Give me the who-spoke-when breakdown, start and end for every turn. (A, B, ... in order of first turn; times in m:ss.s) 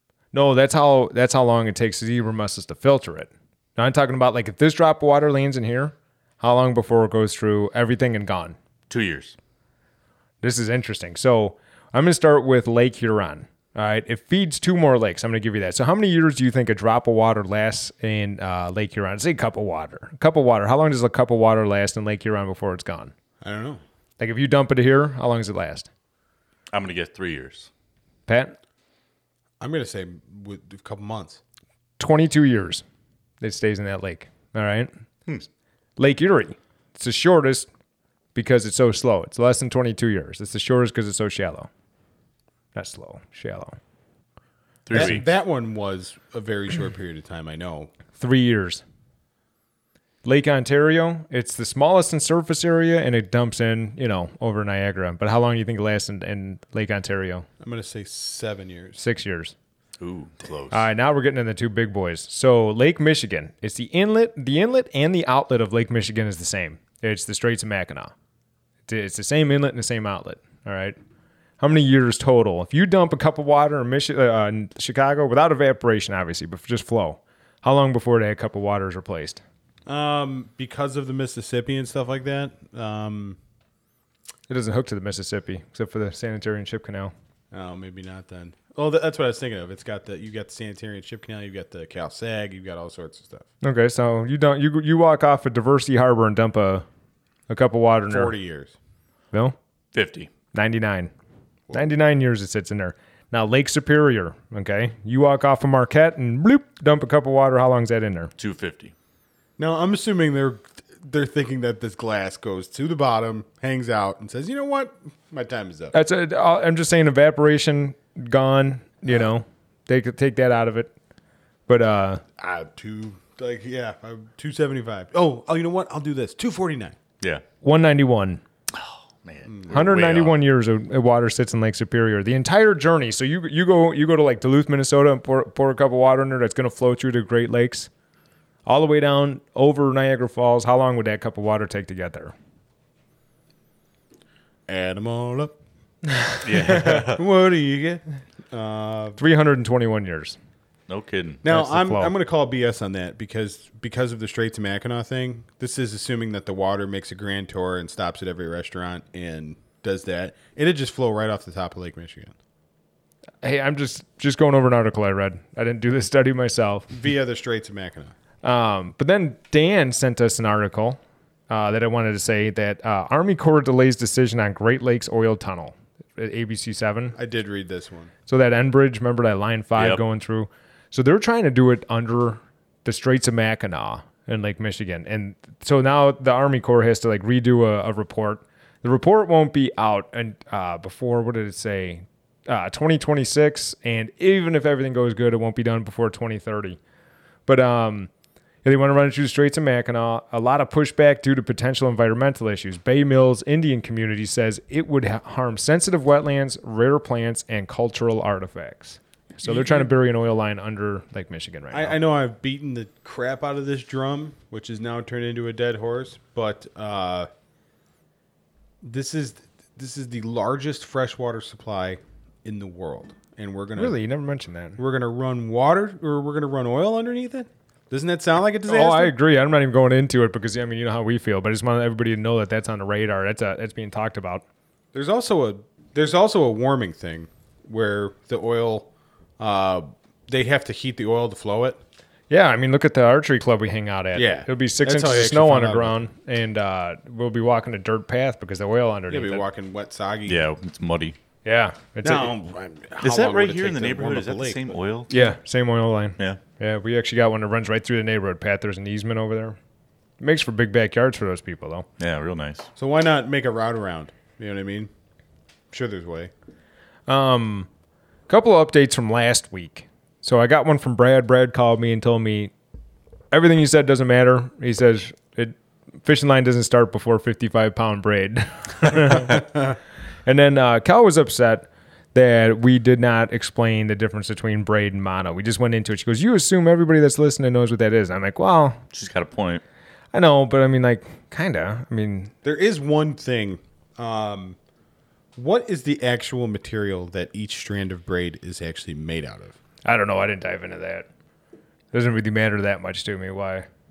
0:00.3-0:08.6 A
0:08.9-0:09.4 B
0:10.4-0:23.1 A
0:23.4-0:23.8 C
0:24.2-0:25.9 A
0:26.7-0:27.7 B
0:28.3-0:28.6 A
0:29.6-0:31.4 C
0:32.0-0:32.8 A
0:33.4-0:34.9 A
0:36.0-0:37.7 A
0:38.4-0:41.7 A
0:42.7-0:43.8 A
0:44.9-0:45.2 B
0:44.9-0:47.9 C
0:48.2-0:48.8 A
0:50.2-0:57.5 A
0:57.6-0:59.0 C
0:59.0-0:59.5 A
1:00.0-1:00.9 B
1:00.7-1:08.1 A
1:08.9-1:11.0 A
1:11.6-1:19.4 A
1:19.9-1:23.4 C
1:24.5-1:27.1 A
1:27.5-1:33.5 C
1:33.6-1:36.9 A
1:37.5-1:38.3 A
1:38.1-1:38.8 C
1:39.9-1:40.3 B
1:40.5-1:41.1 A
1:41.7-1:48.3 A
1:48.4-1:48.9 B
1:49.6-1:55.9 C
1:55.9-2:00.9 A
2:01.7-2:02.2 A
2:02.4-2:07.0 C
2:07.6-2:08.4 A
2:08.7-2:10.4 B
2:09.5-2:09.9 C
2:09.7-2:17.9 A
2:18.7-2:22.3 A
2:24.7-2:25.6 C
2:26.1-2:27.0 A
2:26.4-2:27.2 B
2:26.8-2:29.2 C
2:29.2-2:30.4 A
2:30.9-2:31.4 B
2:31.4-2:42.4 C
2:31.5-2:32.1 A
2:43.4-2:46.9 A
2:46.9-2:48.2 C
2:48.4-2:51.0 A
2:51.5-2:57.2 A
2:57.2-2:58.1 C
2:58.3-3:16.8 A
2:59.8-3:00.0 B
3:17.5-3:18.1 A
3:18.6-3:32.0 A
3:29.4-3:29.9 C
3:31.7-3:37.3 C
3:38.8-3:44.0 C
3:43.8-3:44.8 A
3:44.8-3:49.1 C
3:48.7-3:54.4 A
3:54.9-4:01.8 C
4:02.3-4:09.4 A
4:04.2-4:06.0 C
4:09.1-4:10.5 C
4:10.3-4:11.2 B
4:11.4-4:12.3 A
4:12.0-4:14.8 C
4:13.0-4:15.1 B
4:15.1-4:19.6 A
4:20.2-4:21.9 A
4:22.0-4:22.7 B
4:22.8-4:24.9 C
4:25.7-4:26.3 C
4:27.1-4:27.7 A
4:28.3-4:32.5 A
4:33.3-4:39.6 A
4:40.3-4:48.8 A
4:48.9-4:49.6 B
4:50.1-4:52.3 A
4:52.4-4:54.6 C
4:55.4-4:59.6 C
4:59.8-5:01.1 A
5:01.9-5:03.7 A